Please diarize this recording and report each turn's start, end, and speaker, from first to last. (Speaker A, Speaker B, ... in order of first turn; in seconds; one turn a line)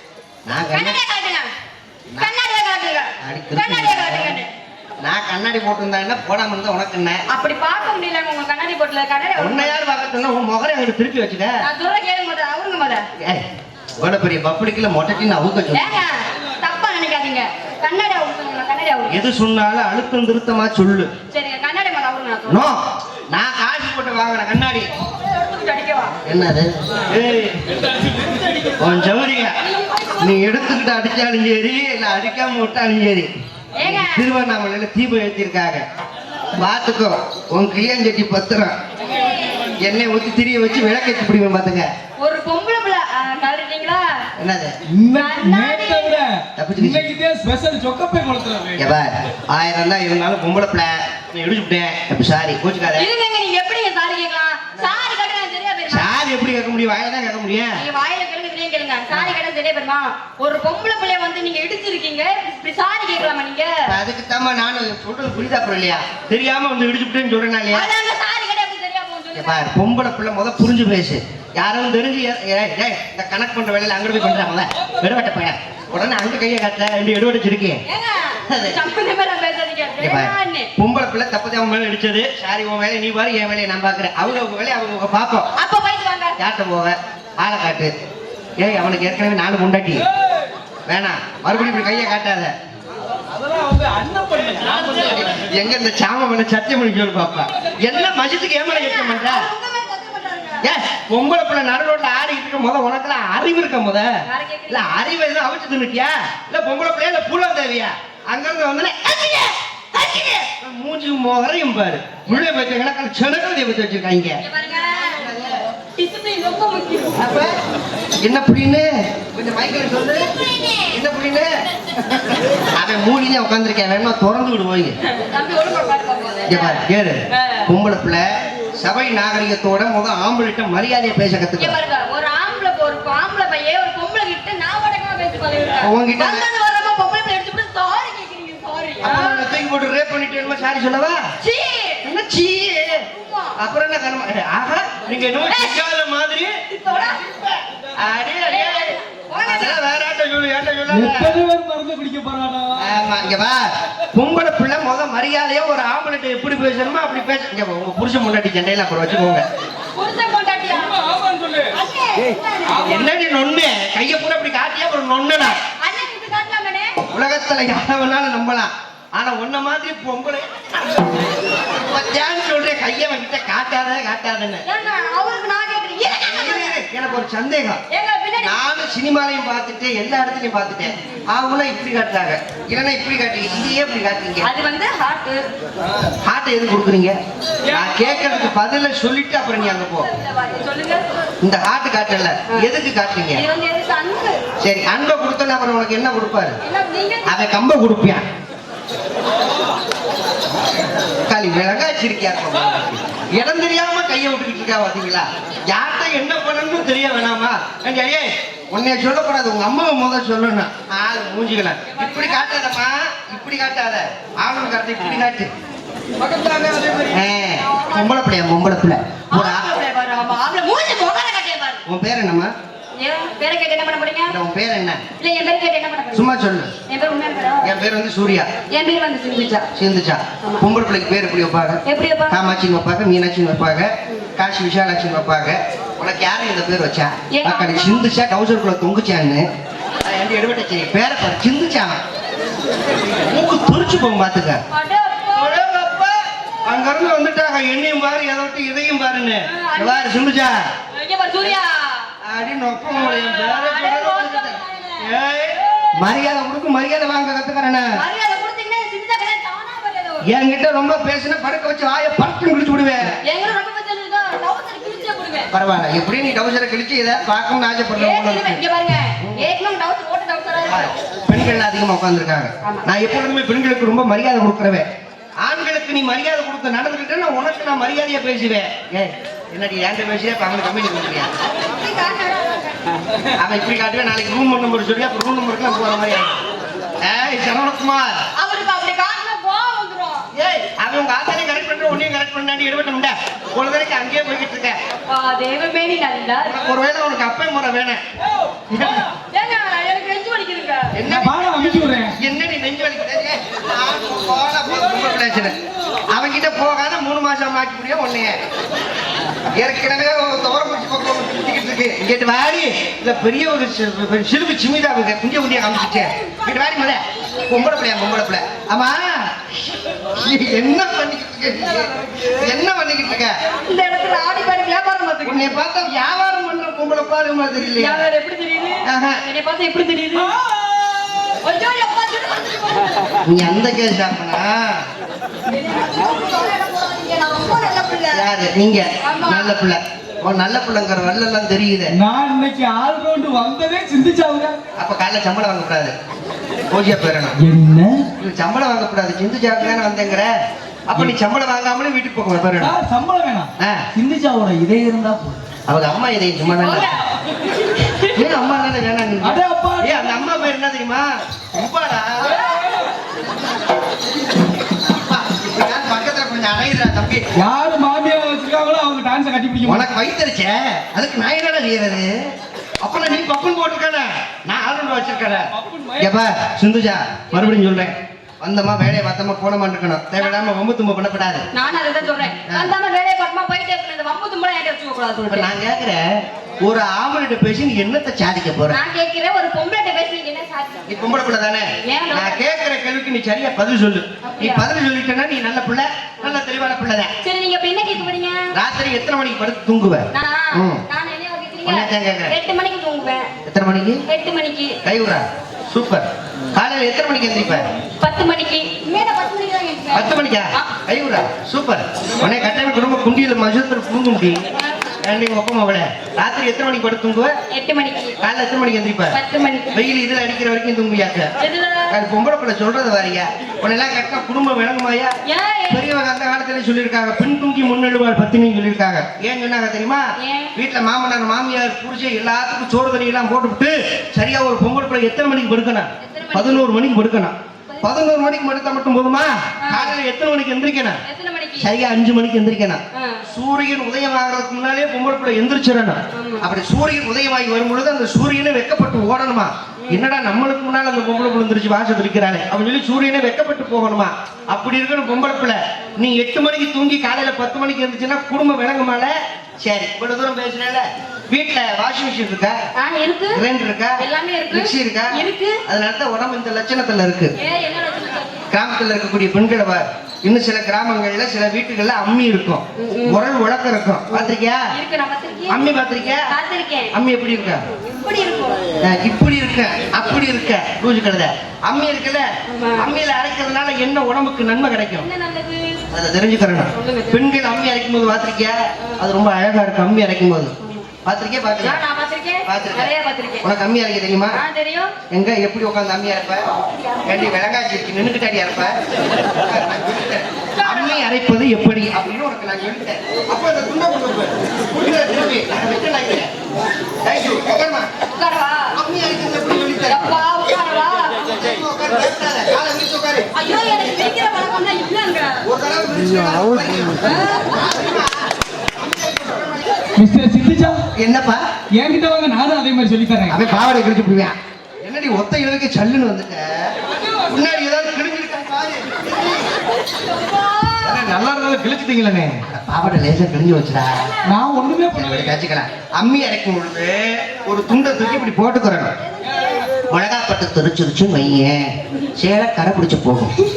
Speaker A: 0.5-1.0
Speaker B: 0.5-1.5
Speaker B: 2.2-4.5
Speaker A: 3.2-4.4
Speaker A: 5.0-7.2
Speaker B: 7.3-9.8
Speaker A: 9.3-11.6
Speaker B: 11.6-13.1
Speaker A: 14.0-16.0
Speaker B: 15.7-19.3
Speaker A: 19.1-21.1
Speaker B: 21.3-22.7
Speaker A: 22.5-24.9
Speaker B: 25.0-26.2
Speaker A: 26.2-27.6
Speaker C: 28.0-28.6
Speaker A: 28.8-29.6
Speaker B: 29.6-31.0
Speaker A: 30.2-35.8
Speaker B: 33.8-34.3
Speaker A: 36.5-38.8
Speaker B: 39.1-39.7
Speaker A: 39.8-41.9
Speaker B: 42.2-44.3
Speaker A: 44.4-44.7
Speaker C: 44.9-48.9
Speaker B: 45.1-46.2
Speaker A: 46.6-47.1
Speaker A: 48.8-53.1
Speaker B: 52.9-56.1
Speaker A: 55.9-57.8
Speaker B: 57.8-63.9
Speaker A: 63.9-67.9
Speaker B: 67.7-69.7
Speaker A: 69.3-77.8
Speaker B: 77.8-80.7
Speaker A: 78.5-78.8
Speaker A: 80.0-85.5
Speaker B: 85.5-86.4
Speaker A: 86.4-87.9
Speaker A: 88.6-90.0
Speaker A: 90.9-92.5
Speaker B: 91.5-92.1
Speaker C: 93.3-95.3
Speaker A: 95.0-99.5
Speaker B: 98.7-100.7
Speaker A: 100.6-104.1
Speaker B: 104.2-105.1
Speaker A: 104.7-115.6
Speaker B: 110.0-110.4
Speaker B: 114.4-115.3
Speaker B: 115.9-117.2
Speaker A: 117.2-117.6
Speaker A: 118.2-120.3
Speaker B: 120.6-120.9
Speaker A: 120.9-121.5
Speaker A: 122.1-125.0
Speaker B: 125.0-126.8
Speaker A: 126.5-128.3
Speaker B: 127.3-127.7
Speaker A: 128.8-131.8
Speaker B: 131.6-139.5
Speaker A: 135.8-136.5
Speaker A: 139.0-141.3
Speaker B: 141.4-142.0
Speaker A: 142.0-143.0
Speaker B: 143.2-143.5
Speaker A: 143.6-151.4
Speaker B: 145.4-145.8
Speaker B: 146.7-147.4
Speaker B: 148.4-149.8
Speaker C: 150.9-153.0
Speaker A: 152.8-159.4
Speaker B: 159.9-162.9
Speaker C: 161.1-161.7
Speaker A: 162.7-165.6
Speaker B: 165.6-167.0
Speaker A: 167.1-174.6
Speaker B: 174.6-176.8
Speaker A: 176.0-177.8
Speaker B: 177.9-178.7
Speaker A: 178.4-184.5
Speaker B: 184.4-185.4
Speaker A: 186.2-187.1
Speaker A: 187.7-190.1
Speaker B: 187.7-188.2
Speaker B: 189.7-191.3
Speaker A: 191.4-193.4
Speaker B: 193.3-194.4
Speaker A: 194.6-196.6
Speaker B: 196.6-197.4
Speaker A: 197.2-198.2
Speaker A: 201.3-215.5
Speaker B: 211.9-212.6
Speaker C: 216.2-217.1
Speaker A: 217.1-219.7
Speaker B: 217.6-218.1
Speaker B: 219.3-221.8
Speaker A: 221.8-222.5
Speaker B: 223.0-224.4
Speaker A: 224.3-225.0
Speaker B: 225.2-226.3
Speaker A: 226.1-226.7
Speaker B: 226.9-227.7
Speaker A: 227.6-228.5
Speaker B: 228.7-229.7
Speaker A: 229.7-239.4
Speaker B: 231.8-232.5
Speaker B: 237.3-238.1
Speaker A: 240.0-242.0
Speaker A: 243.3-244.6
Speaker B: 244.7-245.6
Speaker A: 245.3-250.7
Speaker B: 249.5-250.3
Speaker B: 250.9-252.1
Speaker A: 252.2-258.0
Speaker B: 252.9-255.9
Speaker B: 257.9-260.3
Speaker A: 260.2-263.2
Speaker B: 263.2-265.5
Speaker A: 265.5-268.6
Speaker B: 267.9-270.9
Speaker A: 269.2-269.4
Speaker A: 270.6-274.9
Speaker A: 275.4-281.3
Speaker B: 281.6-282.9
Speaker A: 283.4-286.4
Speaker A: 287.0-288.2
Speaker B: 288.3-290.3
Speaker A: 290.3-294.8
Speaker B: 295.1-296.6
Speaker A: 296.4-298.0
Speaker A: 298.7-299.1
Speaker B: 299.1-301.0
Speaker A: 300.9-305.6
Speaker C: 301.0-302.2
Speaker A: 306.1-308.4
Speaker A: 309.5-323.4
Speaker B: 323.4-325.6
Speaker A: 325.2-328.1
Speaker B: 327.6-333.2
Speaker A: 328.8-329.2
Speaker A: 333.2-334.8
Speaker B: 335.5-338.3
Speaker A: 338.1-341.9
Speaker B: 339.0-339.6
Speaker C: 341.9-344.6
Speaker A: 344.8-345.9
Speaker A: 346.7-347.4
Speaker C: 347.4-348.1
Speaker A: 348.2-350.3
Speaker A: 350.9-352.7
Speaker C: 352.6-355.4
Speaker A: 355.7-356.9
Speaker B: 356.6-358.2
Speaker A: 358.1-362.5
Speaker C: 359.2-360.3
Speaker C: 362.4-362.8
Speaker A: 364.7-367.3
Speaker C: 367.3-369.9
Speaker A: 369.6-372.1
Speaker A: 372.8-381.4
Speaker C: 375.5-376.1
Speaker B: 381.5-385.5
Speaker A: 382.5-382.7
Speaker A: 385.3-388.8
Speaker B: 388.7-391.1
Speaker A: 390.9-397.1
Speaker B: 391.8-392.4
Speaker B: 394.2-394.7
Speaker B: 397.2-398.5
Speaker A: 398.5-400.8
Speaker B: 400.1-403.3
Speaker A: 401.6-402.3
Speaker A: 403.4-404.0
Speaker B: 404.1-404.8
Speaker A: 404.8-407.7
Speaker B: 408.0-410.8
Speaker A: 409.9-414.4
Speaker B: 414.6-415.0
Speaker A: 415.0-417.3
Speaker B: 417.5-418.2
Speaker A: 418.2-419.2
Speaker B: 419.1-419.8
Speaker A: 419.7-421.3
Speaker B: 421.4-422.0
Speaker A: 421.9-425.1
Speaker B: 425.2-425.9
Speaker A: 425.7-441.0
Speaker B: 430.2-430.5
Speaker B: 436.0-436.8
Speaker B: 437.7-438.1
Speaker B: 439.6-439.9
Speaker B: 441.0-441.7
Speaker A: 441.6-462.6
Speaker B: 442.9-443.2
Speaker B: 446.1-446.5
Speaker B: 462.8-463.4
Speaker A: 463.3-464.0
Speaker B: 464.0-465.6
Speaker A: 464.5-467.3
Speaker B: 467.4-468.4
Speaker A: 468.5-474.6
Speaker B: 472.8-473.2
Speaker B: 474.2-475.7
Speaker A: 475.5-476.3
Speaker B: 476.3-476.9
Speaker A: 476.9-477.6
Speaker B: 477.9-478.6
Speaker A: 478.8-482.2
Speaker B: 482.5-482.9
Speaker A: 482.8-485.1
Speaker B: 485.0-485.8
Speaker A: 485.9-490.5
Speaker B: 486.7-487.2
Speaker B: 490.6-490.9
Speaker A: 491.0-491.8
Speaker B: 491.6-493.5
Speaker A: 492.4-494.4
Speaker B: 494.3-494.9
Speaker A: 495.1-496.4
Speaker B: 496.8-497.3
Speaker A: 497.0-498.8
Speaker A: 499.3-506.3
Speaker B: 500.6-501.1
Speaker A: 507.0-507.9
Speaker B: 508.1-508.7
Speaker A: 508.8-510.2
Speaker B: 509.9-511.3
Speaker A: 511.2-513.3
Speaker B: 513.3-515.4
Speaker A: 515.4-519.8
Speaker B: 517.0-517.6
Speaker C: 520.0-520.8
Speaker A: 521.0-521.4
Speaker C: 521.7-523.4
Speaker A: 523.3-526.5
Speaker A: 527.3-529.3
Speaker A: 530.8-534.1
Speaker C: 534.2-535.3
Speaker A: 534.9-538.9
Speaker A: 539.9-543.3